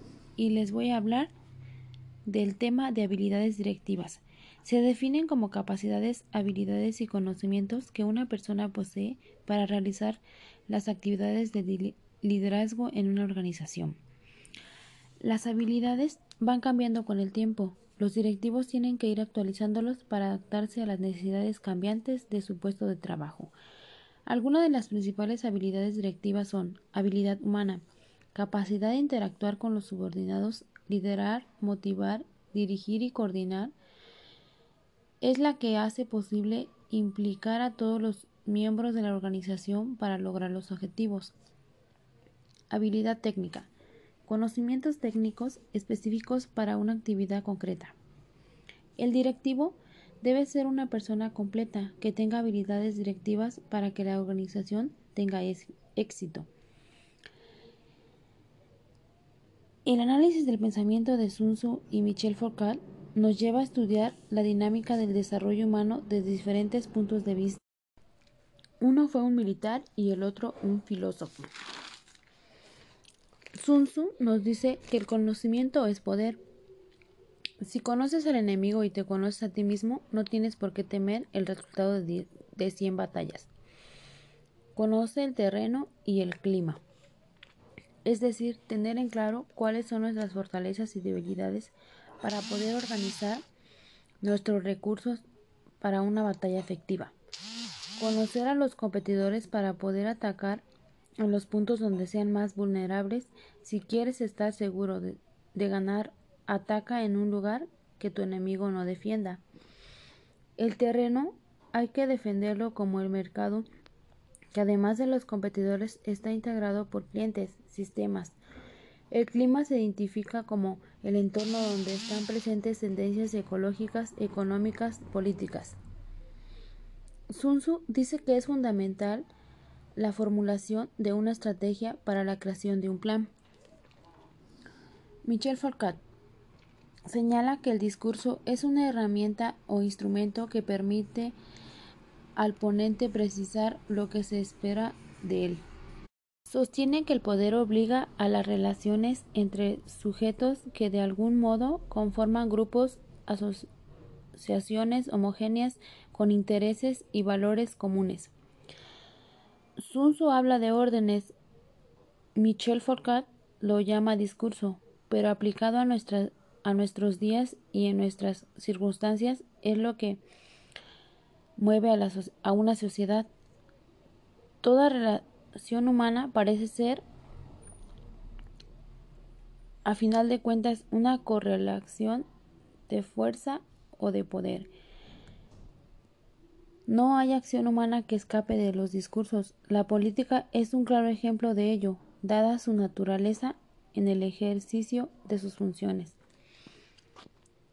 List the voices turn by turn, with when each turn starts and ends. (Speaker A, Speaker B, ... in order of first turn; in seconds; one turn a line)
Speaker A: 0.4-1.3
Speaker A: 2.3-14.0
Speaker A: 15.2-23.5
Speaker A: 24.3-27.8
Speaker A: 28.4-33.8
Speaker A: 35.2-41.3
Speaker A: 42.7-43.7
Speaker A: 44.3-48.0
Speaker A: 49.0-56.5
Speaker A: 59.9-67.6
Speaker A: 68.8-71.5
Speaker A: 73.5-76.4
Speaker A: 77.6-83.5
Speaker A: 84.8-86.8
Speaker A: 88.0-93.5
Speaker A: 94.2-95.2
Speaker A: 95.8-97.1
Speaker A: 98.0-100.7
Speaker A: 101.2-109.4
Speaker A: 110.6-113.7
Speaker A: 114.5-118.4
Speaker A: 119.1-125.8
Speaker A: 127.3-129.3
Speaker A: 130.0-133.3
Speaker A: 135.2-136.0
Speaker A: 137.1-141.4
Speaker A: 142.4-145.6
Speaker A: 146.5-153.7
Speaker A: 154.3-158.3
Speaker A: 159.8-161.3
Speaker A: 162.3-170.2
Speaker A: 171.6-173.3
Speaker A: 174.6-177.1
Speaker A: 179.8-182.3
Speaker A: 182.9-184.7
Speaker A: 186.9-196.2